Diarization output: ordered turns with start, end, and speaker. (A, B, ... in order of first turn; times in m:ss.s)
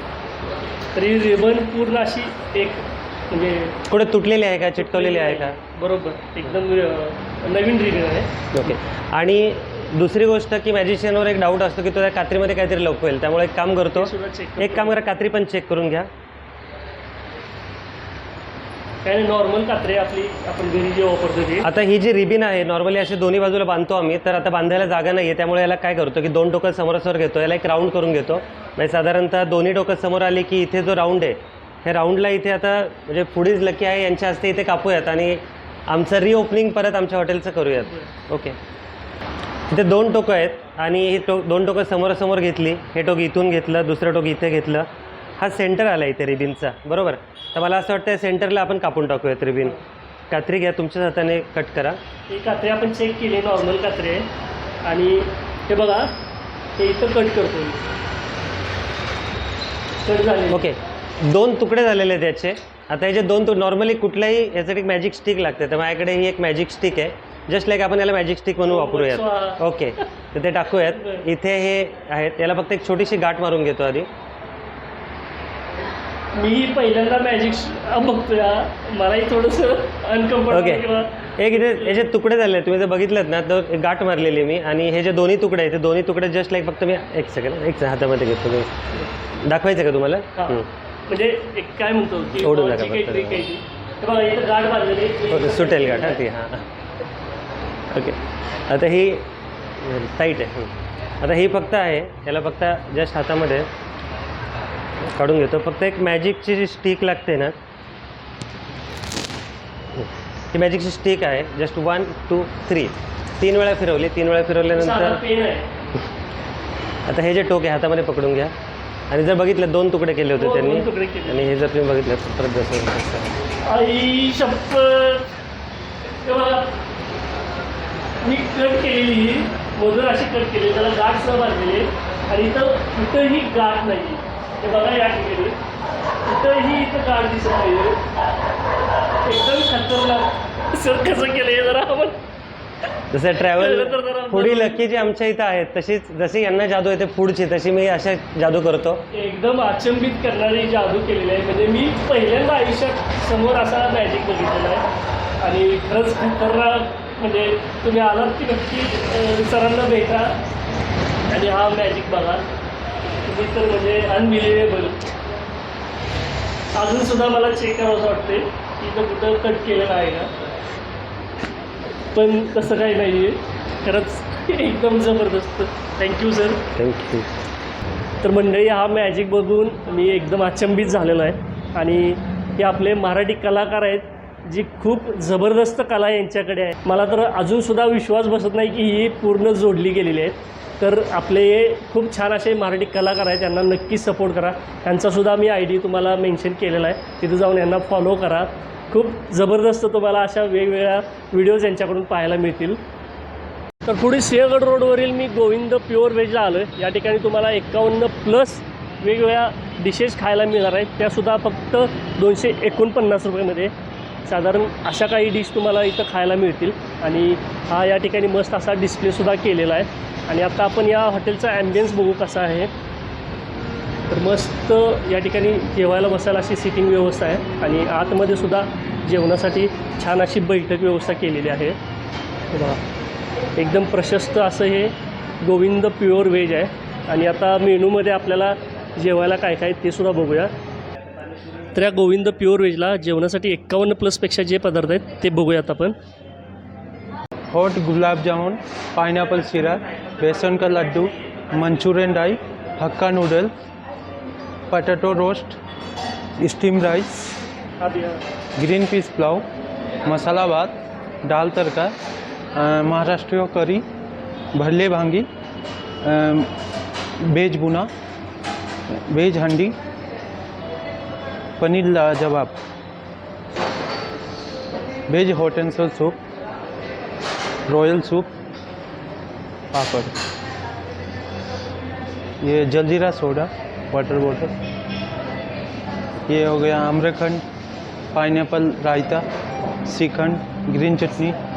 0:00.9-0:03.8 A
0:03.9-0:05.6 B
0:04.8-0:08.4 A
0:08.5-0:16.1 B
0:13.9-0:15.0 A
0:19.0-0:21.7 A
0:21.6-0:38.6 B
0:39.7-0:49.8 B
0:50.3-0:52.0 B
0:52.3-0:54.3 A
0:54.8-0:56.2 A
0:56.8-0:57.8 A
1:00.0-1:00.7 A
1:00.5-1:14.1 B
1:08.7-1:09.6 A
1:10.9-1:11.2 A
1:16.4-1:22.0 A
1:20.5-1:20.8 B
1:21.4-1:28.9 B
1:29.4-1:30.7 B
1:30.4-1:36.2 A
1:32.4-1:33.5 B
1:35.3-1:36.6 B
1:37.9-1:39.3 B
1:39.8-1:43.7 B
1:45.2-1:47.6 B
1:50.0-1:55.2 B
1:54.8-1:55.7 A
1:57.1-1:58.5 B
1:59.1-2:03.3 B
2:00.4-2:01.5 A
2:03.6-2:05.3 A
2:06.2-2:06.8 A
2:08.2-2:15.6 A
2:16.2-2:18.1 A
2:19.2-2:22.2 A
2:23.1-2:29.0 B
2:23.4-2:24.9 A
2:29.1-2:34.8 A
2:35.4-2:40.4 A
2:41.3-2:42.4 A
2:43.2-2:45.0 A
2:46.8-2:50.3 A
2:52.2-2:56.7 A
2:56.8-2:57.3 B
2:58.2-3:22.8 A
3:23.8-3:33.7 A
3:34.3-3:42.7 A
3:44.1-3:51.8 A
3:52.5-3:52.8 A
3:53.6-4:00.5 A
4:01.7-4:06.0 A
4:07.5-4:13.5 C
4:14.7-4:15.6 C
4:16.4-4:17.2 C
4:17.8-4:18.2 A
4:18.6-4:19.4 C
4:20.1-4:21.9 C
4:22.6-4:23.8 C
4:24.6-4:25.3 C
4:26.0-4:26.5 C
4:27.2-4:27.9 C
4:29.1-4:29.8 C
4:31.6-4:32.6 C
4:35.1-4:36.2 C
4:37.7-4:38.3 C
4:39.7-4:40.2 C
4:42.4-4:44.6 C
4:46.3-4:47.4 C
4:48.1-4:49.2 C
4:49.9-4:51.4 C